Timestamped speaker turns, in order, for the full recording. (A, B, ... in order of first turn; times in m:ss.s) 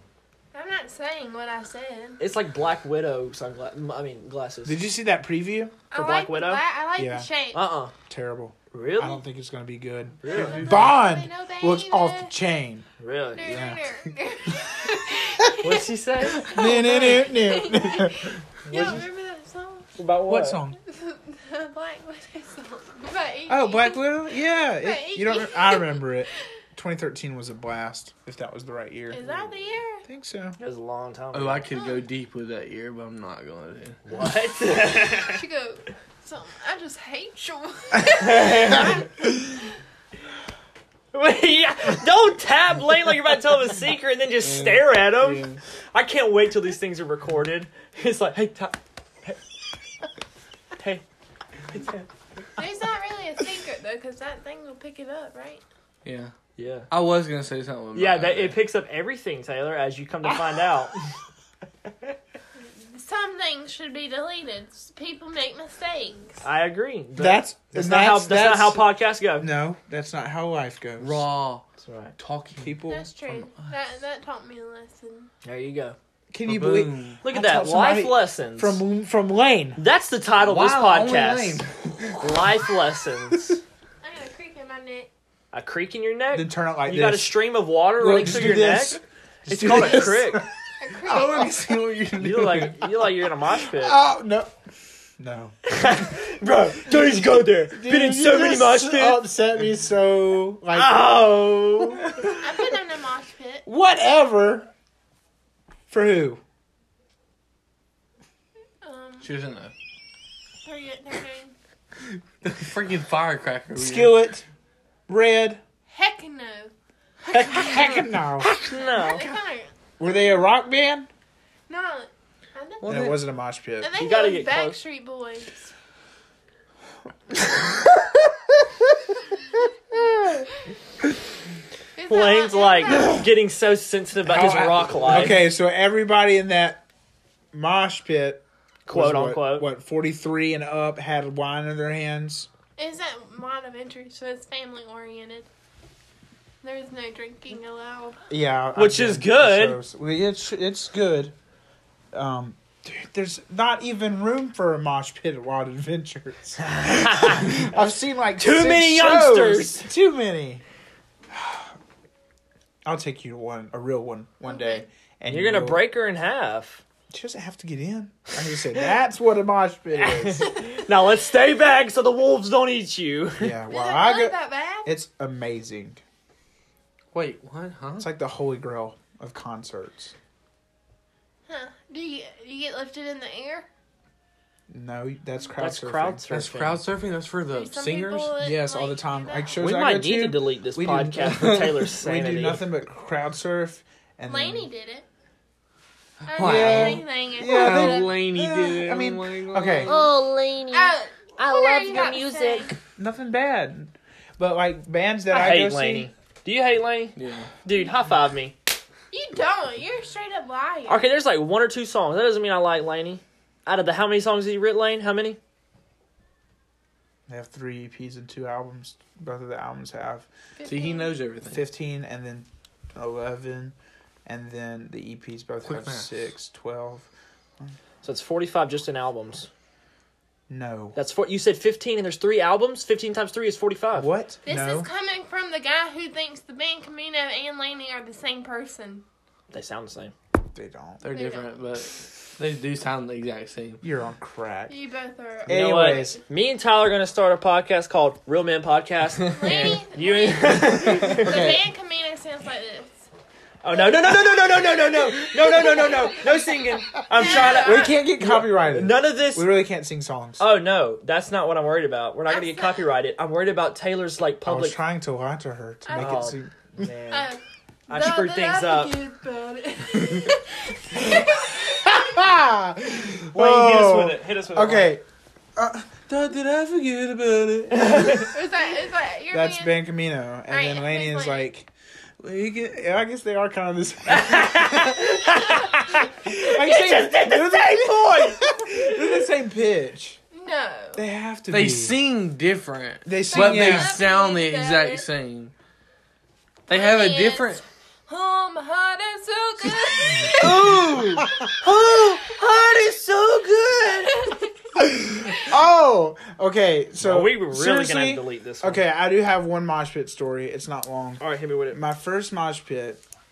0:00.5-0:02.2 A
0:02.2-0:04.8 B
0:04.6-0:05.8 C
0:05.9-0:07.6 A
0:05.9-0:06.6 B
0:07.0-0:07.3 C
0:07.5-0:07.9 B
0:08.1-0:12.8 C
0:08.7-0:09.2 B
0:10.2-0:10.7 B
0:10.3-0:10.9 D
0:10.5-0:12.3 A
0:13.0-0:13.5 B
0:13.3-0:20.0 A
0:13.4-0:13.8 C
0:15.6-0:16.7 B
0:16.4-0:19.0 C
0:18.7-0:19.0 B
0:20.0-0:20.6 B
0:20.3-0:20.8 C
0:20.8-0:24.0 A
0:23.5-0:30.6 C
0:24.6-0:26.1 A
0:29.1-0:30.0 A
0:30.6-0:31.6 B
0:31.3-0:34.0 D
0:31.7-0:32.0 A
0:34.0-0:35.4 B
0:35.2-0:39.7 A
0:38.2-0:39.0 B
0:41.1-0:49.4 B
0:44.4-0:45.6 D
0:51.7-0:52.1 B
0:52.6-0:55.6 A
0:56.0-0:56.3 D
0:56.6-0:56.9 B
0:56.9-0:58.6 D
0:57.9-1:01.0 B
1:02.6-1:06.4 A
1:06.4-1:09.5 B
1:07.2-1:11.2 C
1:11.0-1:11.7 D
1:11.8-1:12.1 B
1:12.2-1:12.8 D
1:12.6-1:13.5 C
1:12.9-1:15.3 A
1:15.4-1:16.0 B
1:16.3-1:19.8 C
1:16.4-1:17.2 D
1:17.2-1:18.8 B
1:19.8-1:21.6 B
1:20.4-1:22.2 D
1:22.2-1:23.6 B
1:24.0-1:25.1 A
1:25.5-1:30.5 B
1:26.3-1:27.4 C
1:28.0-1:30.5 C
1:30.8-1:31.5 A
1:30.9-1:32.9 D
1:31.1-1:31.3 C
1:32.2-1:34.0 B
1:33.7-1:34.5 C
1:35.2-1:35.5 C
1:35.6-1:39.3 B
1:37.7-1:41.2 C
1:40.7-1:42.1 B
1:42.4-1:43.6 A
1:43.6-1:44.7 C
1:45.9-1:46.4 C
1:48.8-1:49.3 A
1:49.2-1:49.7 D
1:50.6-1:51.5 A
1:52.4-1:54.2 D
1:53.7-1:54.4 C
1:55.1-1:55.6 C
1:55.9-1:56.7 A
1:57.3-1:59.3 B
1:57.3-1:58.5 C
1:57.4-1:57.9 A
1:58.7-1:59.7 A
2:00.0-2:01.1 C
2:01.7-2:03.2 A
2:02.8-2:03.2 D
2:02.8-2:04.1 C
2:03.8-2:05.7 A
2:04.0-2:04.8 B
2:07.5-2:07.8 C
2:12.0-2:13.2 A
2:12.1-2:15.4 B
2:14.2-2:16.8 C
2:17.5-2:22.5 C
2:18.8-2:19.7 B
2:22.8-2:25.5 A
2:26.6-2:28.2 A
2:28.3-2:31.3 C
2:28.8-2:29.8 B
2:32.1-2:40.6 C
2:36.6-2:37.6 B
2:38.4-2:39.9 B
2:41.3-2:41.7 C
2:42.8-2:45.8 C
2:44.4-2:44.8 A
2:45.3-2:46.8 B
2:47.1-2:50.5 C
2:49.9-2:53.6 B
2:53.4-2:56.0 C
2:53.7-2:54.9 A
2:57.1-2:58.1 D
2:58.0-3:00.1 C
3:01.5-3:03.7 A
3:04.7-3:06.4 C
3:05.6-3:06.8 B
3:06.3-3:08.4 D
3:07.5-3:09.6 A
3:08.4-3:14.7 C
3:09.6-3:12.7 B
3:11.2-3:11.7 D
3:14.3-3:15.0 A
3:16.2-3:20.0 D
3:16.3-3:18.1 A
3:16.4-3:20.0 C
3:19.9-3:22.7 E
3:20.7-3:22.7 A
3:22.9-3:26.1 C
3:25.3-3:28.6 B
3:27.2-3:27.5 D
3:29.1-3:31.0 A
3:30.9-3:35.4 B
3:37.3-3:40.3 C
3:40.6-3:41.2 A
3:40.6-3:41.6 D
3:41.5-3:43.7 C
3:44.2-3:47.1 C
3:45.6-3:46.1 D
3:48.0-3:49.5 B
3:50.5-3:51.0 C
3:51.0-3:54.1 B
3:54.0-3:54.9 C
3:54.4-3:59.0 A
3:59.5-4:00.1 B
4:00.5-4:01.0 C
4:01.0-4:03.8 D
4:01.1-4:01.5 A
4:03.8-4:04.8 C
4:04.7-4:06.1 A
4:05.4-4:06.2 C
4:05.5-4:11.5 B
4:09.3-4:13.1 A
4:11.1-4:11.6 C
4:13.6-4:19.6 B
4:15.5-4:16.3 A
4:17.1-4:18.0 A
4:17.2-4:20.4 C
4:20.4-4:24.8 B
4:22.3-4:22.8 A
4:24.4-4:26.9 C
4:25.8-4:26.2 A
4:25.9-4:27.4 B
4:27.1-4:32.2 A
4:27.9-4:28.9 B
4:30.9-4:35.0 C
4:33.3-4:34.9 B
4:35.6-4:38.2 C
4:37.7-4:38.3 B
4:38.0-4:39.8 A
4:39.3-4:41.7 C
4:40.5-4:41.5 A
4:42.2-4:45.0 C
4:44.1-4:48.4 B
4:46.2-4:50.2 C
4:50.3-4:51.0 A
4:50.9-4:51.9 C
4:51.5-4:55.5 D
4:53.0-4:54.0 C
4:53.3-4:55.0 A
4:56.7-4:57.6 D
4:56.7-5:01.5 A
5:00.4-5:04.3 B
5:00.4-5:00.8 D
5:04.8-5:13.0 C
5:07.0-5:08.8 B
5:11.2-5:11.8 B